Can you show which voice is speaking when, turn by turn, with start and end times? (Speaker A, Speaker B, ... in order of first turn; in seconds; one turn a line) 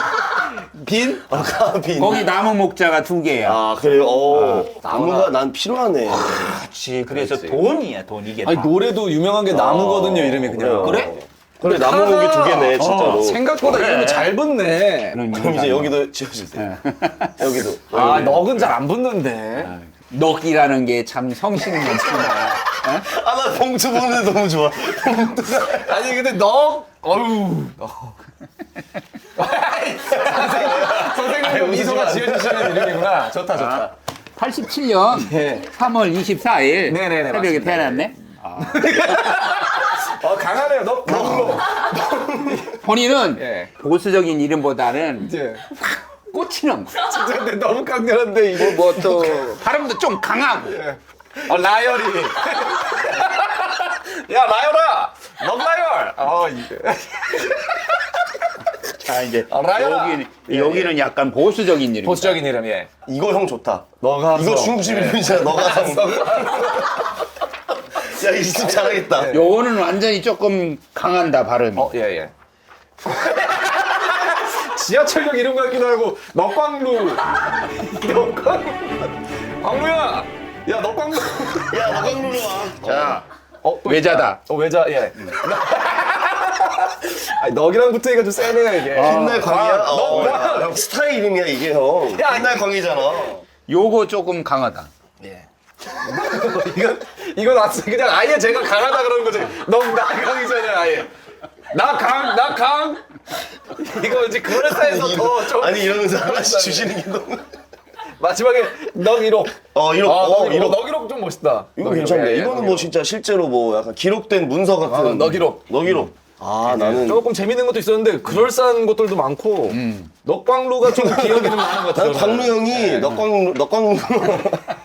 Speaker A: 0.1-3.6
Speaker B: 1.3-2.3
Speaker B: 3.4-6.4
Speaker C: 4.3-5.3
Speaker A: 6.1-8.8
Speaker C: 7.1-7.7
Speaker C: 8.4-15.2
Speaker B: 9.5-13.4
Speaker A: 10.8-11.1
Speaker A: 13.6-14.4
Speaker A: 15.1-16.0
Speaker B: 15.3-16.7
Speaker A: 16.5-17.5
Speaker B: 17.4-18.8
Speaker C: 17.9-19.7
Speaker A: 18.1-18.6
Speaker A: 19.6-23.1
Speaker B: 23.0-26.1
Speaker C: 25.6-28.2
Speaker C: 29.4-33.9
Speaker A: 29.4-31.4
Speaker B: 30.4-33.1
Speaker A: 33.5-39.6
Speaker C: 35.1-35.7
Speaker C: 36.9-43.7
Speaker B: 41.1-41.5
Speaker B: 42.1-42.6
Speaker A: 42.8-47.0
Speaker C: 45.2-45.7
Speaker C: 47.0-49.6
Speaker A: 48.5-50.8
Speaker C: 50.7-58.0
Speaker A: 58.8-62.4
Speaker C: 59.5-61.0
Speaker C: 62.0-62.9
Speaker B: 63.1-66.9
Speaker C: 64.0-67.0
Speaker B: 68.0-69.4
Speaker C: 68.5-69.5
Speaker A: 69.3-72.0
Speaker C: 71.8-72.3
Speaker C: 73.0-82.3
Speaker B: 81.7-83.2
Speaker C: 82.8-90.8
Speaker A: 82.9-83.2
Speaker A: 83.8-84.4
Speaker B: 88.9-93.4
Speaker A: 88.9-89.5
Speaker A: 90.1-90.4
Speaker C: 92.1-92.7
Speaker A: 93.7-94.9
Speaker C: 95.2-101.1
Speaker C: 101.7-103.1
Speaker C: 103.7-107.0
Speaker B: 104.3-107.5
Speaker C: 108.2-112.9
Speaker B: 109.7-110.8
Speaker B: 111.8-117.3
Speaker C: 114.8-116.1
Speaker C: 116.6-123.2
Speaker A: 119.7-120.1
Speaker B: 120.8-124.7